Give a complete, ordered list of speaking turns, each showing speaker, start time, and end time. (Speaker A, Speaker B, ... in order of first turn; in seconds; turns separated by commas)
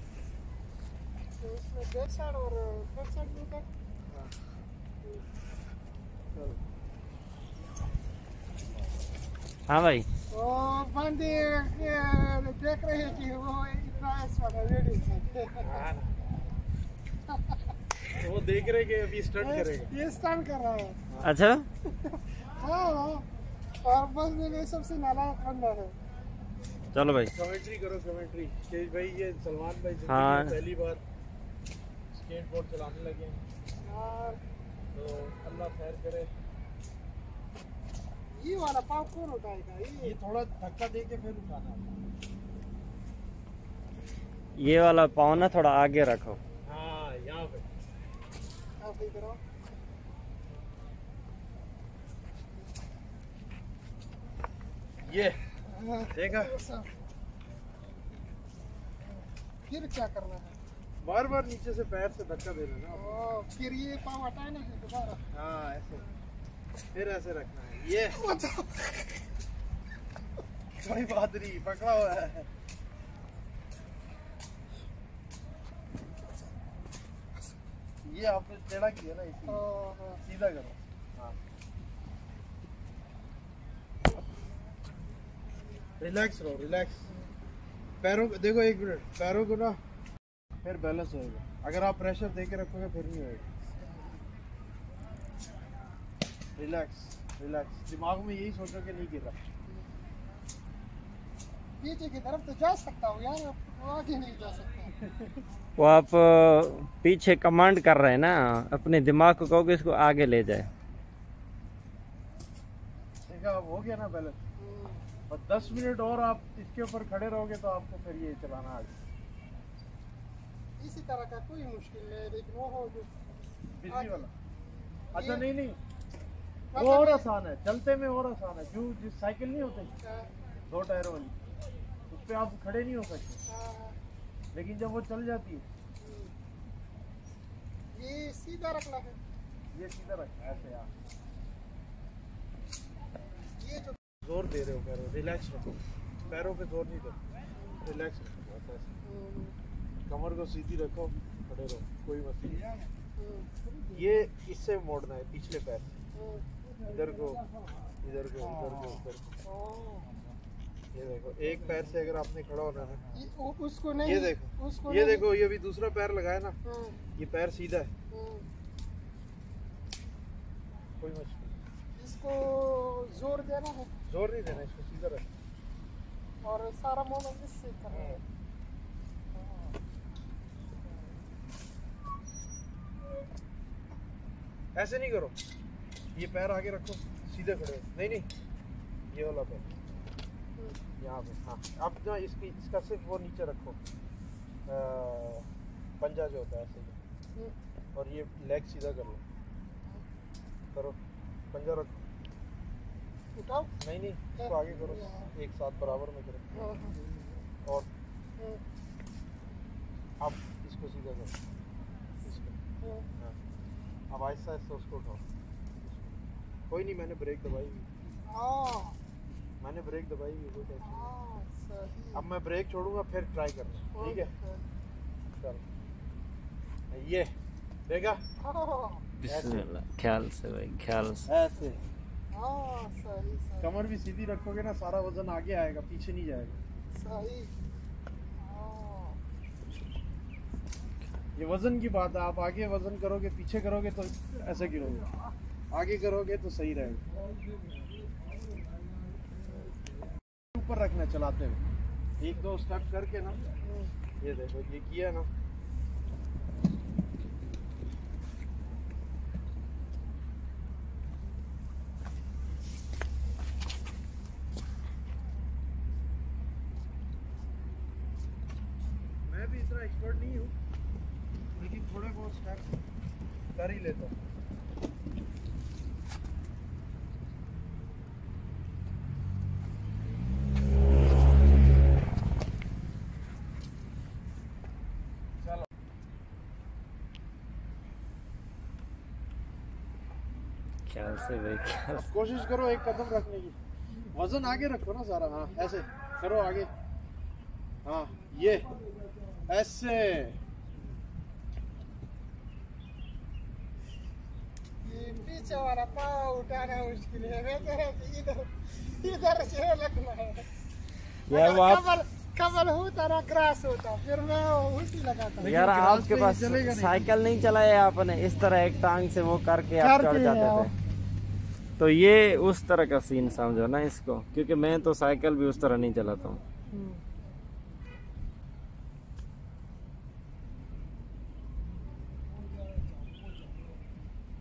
Speaker A: 1.4-3.6, Speaker B: 6.3-6.6, Speaker C: 9.7-10.1, Speaker A: 10.3-15.8, Speaker B: 15.6-16.1, Speaker B: 18.1-19.9, Speaker A: 19.4-21.0, Speaker C: 21.2-21.7, Speaker A: 22.5-23.2, Speaker A: 23.8-25.9, Speaker C: 26.9-27.3, Speaker B: 27.3-31.0, Speaker C: 30.1-30.6, Speaker B: 32.1-33.4, Speaker A: 33.8-34.4, Speaker B: 34.9-36.3, Speaker A: 38.3-40.1, Speaker B: 40.0-42.0, Speaker C: 44.6-46.4, Speaker B: 46.7-47.6, Speaker A: 48.8-49.4, Speaker B: 55.0-55.4, Speaker A: 55.7-56.9, Speaker B: 56.1-56.5, Speaker A: 59.7-60.5, Speaker B: 61.0-63.1, Speaker A: 62.9-65.2, Speaker B: 65.3-66.0, Speaker B: 66.9-68.2, Speaker A: 68.2-69.0, Speaker B: 70.8-72.5, Speaker B: 78.0-79.7, Speaker A: 79.5-80.2, Speaker B: 80.3-81.4, Speaker B: 86.0-87.1, Speaker B: 88.0-89.8, Speaker B: 90.6-93.5, Speaker B: 96.6-99.4, Speaker A: 101.8-105.0, Speaker C: 105.8-110.7, Speaker B: 113.3-114.4, Speaker A: 114.6-115.0, Speaker B: 115.3-118.9, Speaker A: 120.8-123.1, Speaker B: 123.8-124.3, Speaker A: 123.9-124.3, Speaker A: 125.1-125.5, Speaker B: 125.1-125.8, Speaker A: 126.7-127.3, Speaker B: 126.8-129.9, Speaker A: 130.0-130.3, Speaker B: 130.7-131.3, Speaker B: 132.1-133.4, Speaker A: 133.5-133.9, Speaker B: 134.5-135.6, Speaker A: 136.0-136.3, Speaker A: 137.9-139.2, Speaker B: 139.7-140.9, Speaker A: 143.6-144.0, Speaker B: 144.2-147.2, Speaker B: 147.8-148.9, Speaker A: 149.0-149.5, Speaker B: 150.1-152.7, Speaker A: 153.2-153.5, Speaker B: 153.9-155.9, Speaker A: 156.1-156.4, Speaker B: 156.8-157.4, Speaker B: 158.0-159.4, Speaker A: 159.4-160.1, Speaker B: 160.9-163.1, Speaker A: 163.1-165.2, Speaker B: 164.0-166.6, Speaker A: 166.6-167.0, Speaker B: 167.2-167.9, Speaker A: 168.1-168.4, Speaker B: 171.0-171.5, Speaker A: 171.9-173.9, Speaker B: 174.1-175.2, Speaker A: 176.4-178.2, Speaker B: 177.9-178.2, Speaker B: 184.8-185.3, Speaker B: 186.1-188.3, Speaker B: 189.1-189.6, Speaker B: 191.0-193.8, Speaker B: 194.7-195.5, Speaker B: 196.0-197.0, Speaker B: 197.9-199.2, Speaker B: 201.5-201.9, Speaker A: 203.3-203.7, Speaker B: 203.8-206.6, Speaker A: 206.5-207.0, Speaker B: 210.2-211.3, Speaker B: 212.2-212.6, Speaker A: 212.8-213.1, Speaker B: 214.1-215.2, Speaker B: 216.7-217.9, Speaker A: 218.3-219.0, Speaker B: 219.6-221.1, Speaker A: 220.8-222.2, Speaker B: 222.1-224.3, Speaker A: 223.9-224.6, Speaker B: 225.4-225.6, Speaker B: 226.9-227.3, Speaker B: 227.9-228.2, Speaker A: 228.4-229.0, Speaker C: 229.2-231.3, Speaker B: 229.3-229.7, Speaker B: 231.3-231.8, Speaker A: 232.3-233.7, Speaker B: 233.6-236.6, Speaker A: 236.9-237.5, Speaker A: 238.4-239.2, Speaker B: 241.3-245.1, Speaker B: 245.7-247.0, Speaker B: 250.5-251.6, Speaker B: 252.2-253.4, Speaker A: 253.6-253.9, Speaker B: 254.2-255.3, Speaker B: 269.2-270.5, Speaker B: 271.6-272.8, Speaker B: 273.6-274.1, Speaker C: 290.9-292.1, Speaker B: 291.9-293.6, Speaker B: 294.1-296.7, Speaker B: 297.8-298.7, Speaker B: 299.5-300.4, Speaker A: 304.8-310.5, Speaker C: 311.3-311.8, Speaker A: 311.3-315.6, Speaker C: 315.4-320.7, Speaker B: 315.4-317.1, Speaker A: 319.8-320.7, Speaker C: 321.8-326.4, Speaker A: 326.7-327.0